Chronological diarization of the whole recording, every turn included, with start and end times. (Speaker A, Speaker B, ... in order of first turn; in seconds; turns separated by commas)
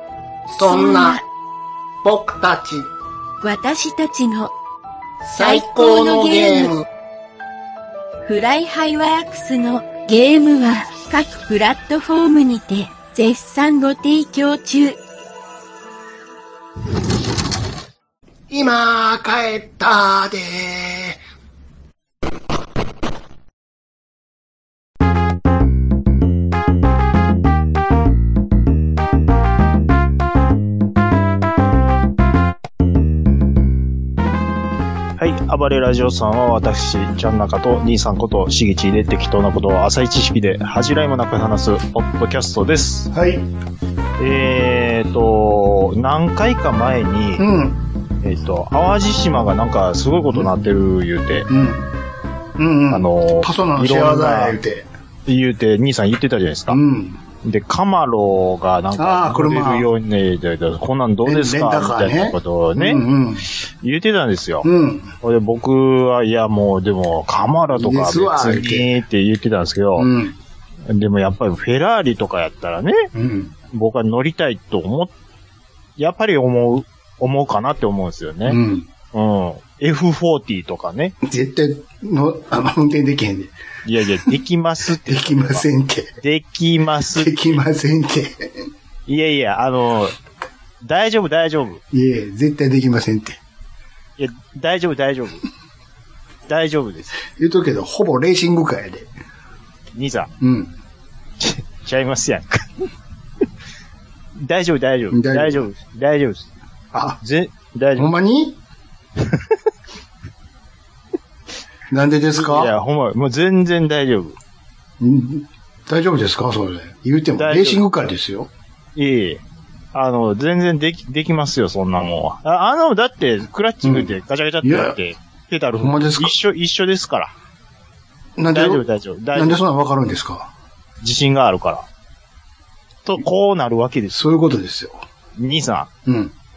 Speaker A: 0.5-1.2, Speaker B: 0.6-1.2, Speaker A: 2.0-2.9, Speaker B: 3.4-4.5, Speaker A: 5.2-6.8, Speaker B: 5.3-6.7, Speaker B: 8.2-15.0, Speaker A: 18.5-21.2, Speaker C: 35.2-43.1, Speaker A: 43.1-43.5, Speaker C: 44.2-47.5, Speaker A: 47.4-47.8, Speaker C: 48.2-51.5, Speaker A: 51.5-51.9, Speaker A: 52.6-54.9, Speaker C: 52.9-54.6, Speaker C: 55.3-56.8, Speaker A: 56.7-57.2, Speaker C: 57.4-63.0, Speaker A: 59.0-59.9, Speaker A: 61.2-63.4, Speaker C: 63.8-64.7, Speaker A: 64.6-65.1, Speaker C: 65.2-70.1, Speaker A: 67.7-68.9, Speaker A: 70.0-70.4, Speaker C: 70.9-73.1, Speaker A: 73.1-73.5, Speaker C: 73.7-75.1, Speaker C: 76.0-78.6, Speaker A: 78.5-78.9, Speaker C: 79.1-81.1, Speaker A: 81.2-83.5, Speaker C: 83.8-85.6, Speaker A: 85.0-86.2, Speaker C: 86.2-87.6, Speaker A: 87.1-88.6, Speaker C: 89.1-90.1, Speaker C: 90.8-91.8, Speaker A: 91.9-93.4, Speaker C: 94.2-95.4, Speaker C: 96.5-97.2, Speaker A: 97.3-99.1, Speaker C: 99.9-100.3, Speaker A: 100.4-100.7, Speaker C: 101.4-102.9, Speaker C: 104.4-106.5, Speaker A: 105.1-105.6, Speaker A: 106.9-107.2, Speaker C: 107.2-108.1, Speaker A: 108.0-108.6, Speaker A: 111.9-112.7, Speaker C: 112.3-114.3, Speaker A: 115.0-118.5, Speaker C: 117.3-117.8, Speaker C: 119.0-119.4, Speaker C: 119.9-127.3, Speaker A: 123.8-124.1, Speaker A: 124.6-125.0, Speaker A: 125.8-126.3, Speaker A: 128.4-130.5, Speaker C: 128.5-129.6, Speaker C: 131.0-131.8, Speaker C: 133.0-134.2, Speaker A: 134.1-135.0, Speaker C: 135.4-135.9, Speaker A: 136.1-136.3